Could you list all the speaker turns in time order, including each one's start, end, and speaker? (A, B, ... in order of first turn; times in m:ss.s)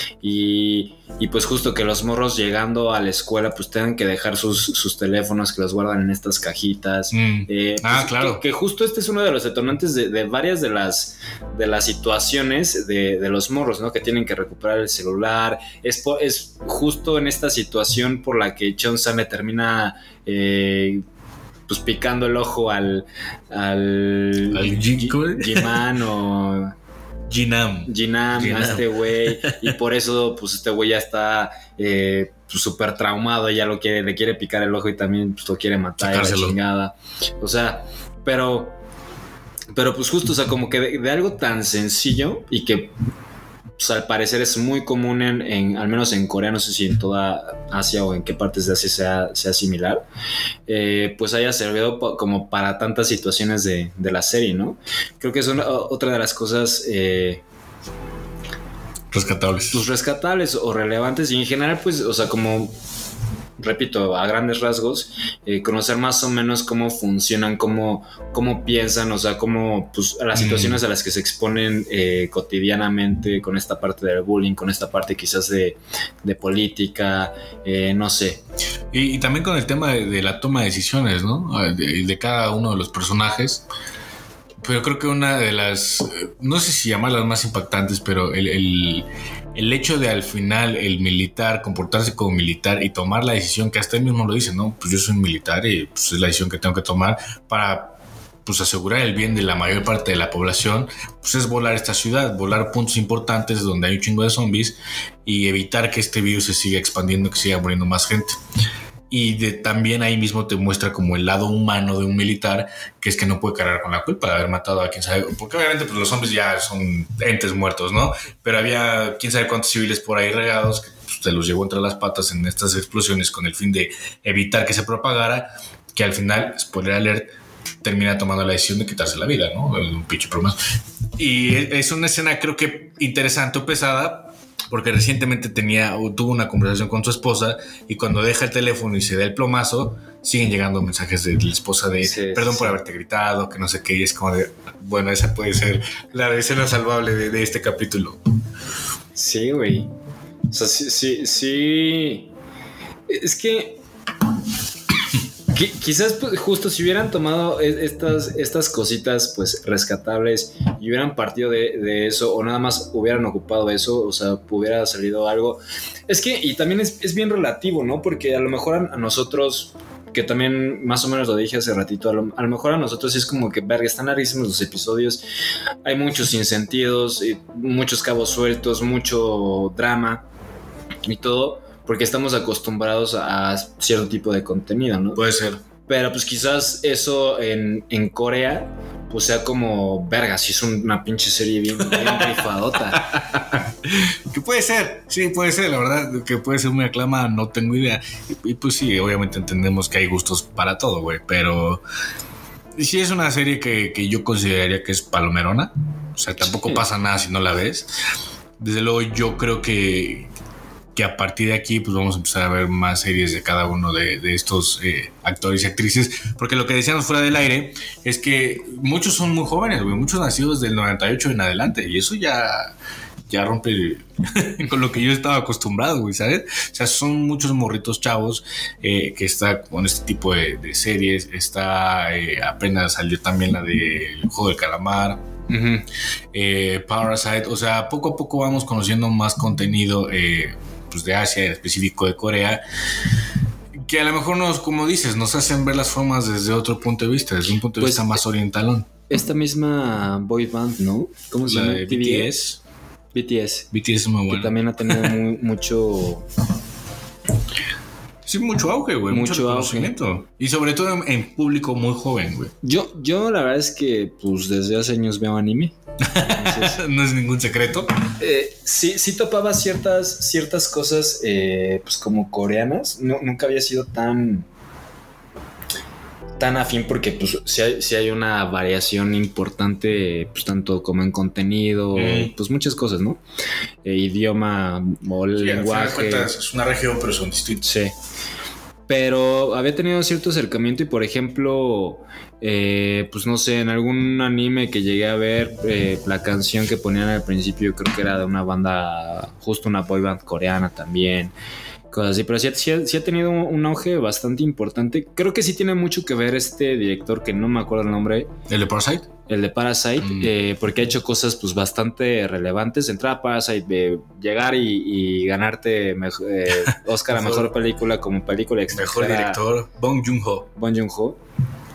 0:00.2-0:21.0 A
0:07.1-0:08.4 B
0:21.7-0:26.7 A
0:24.5-0:25.8 B
0:27.3-0:29.7 B
0:27.9-0:38.7 A
0:36.0-0:36.6 B
0:39.7-0:42.9 A
0:43.8-0:50.0 A
0:50.7-0:57.4 A
0:59.1-0:59.8 B
0:59.7-1:02.7 A
1:03.6-1:18.4 A
1:10.3-1:10.8 B
1:18.9-1:23.6 B
1:24.6-1:48.4 B
1:49.1-2:07.3 B
2:07.8-2:10.6 B
2:11.2-2:28.2 B
2:22.0-2:22.8 A
2:29.1-2:29.9 A
2:30.5-2:32.3 A
2:33.1-2:33.8 A
2:35.5-2:55.2 A
2:55.8-3:00.2 A
3:01.0-3:05.2 A
3:05.2-3:05.6 B
3:05.9-3:13.0 A
3:11.8-3:21.8 B
3:22.8-3:27.9 B
3:26.4-3:26.8 A
3:28.6-3:30.3 B
3:30.9-3:42.7 B
3:43.3-3:55.2 B
3:55.5-3:55.9 A
3:56.3-4:02.6 B
4:03.7-4:08.9 B
4:07.8-4:08.2 A
4:09.1-4:12.4 A
4:11.4-4:12.6 B
4:13.1-4:13.7 A
4:13.7-4:15.1 B
4:14.3-4:16.2 A
4:18.2-4:22.5 B
4:19.1-4:19.9 A
4:22.6-4:26.8 A
4:26.0-4:27.9 B
4:28.2-4:34.4 A
4:36.4-4:43.2 A
4:41.9-4:42.3 B
4:43.8-4:46.3 A
4:45.3-4:47.6 B
4:47.6-4:47.9 A
4:48.9-5:01.3 A
5:01.9-5:08.3 A
5:08.5-5:09.1 B
5:09.3-5:19.4 A
5:10.0-5:10.3 B
5:16.7-5:17.4 B
5:18.7-5:20.5 B
5:20.6-5:21.2 A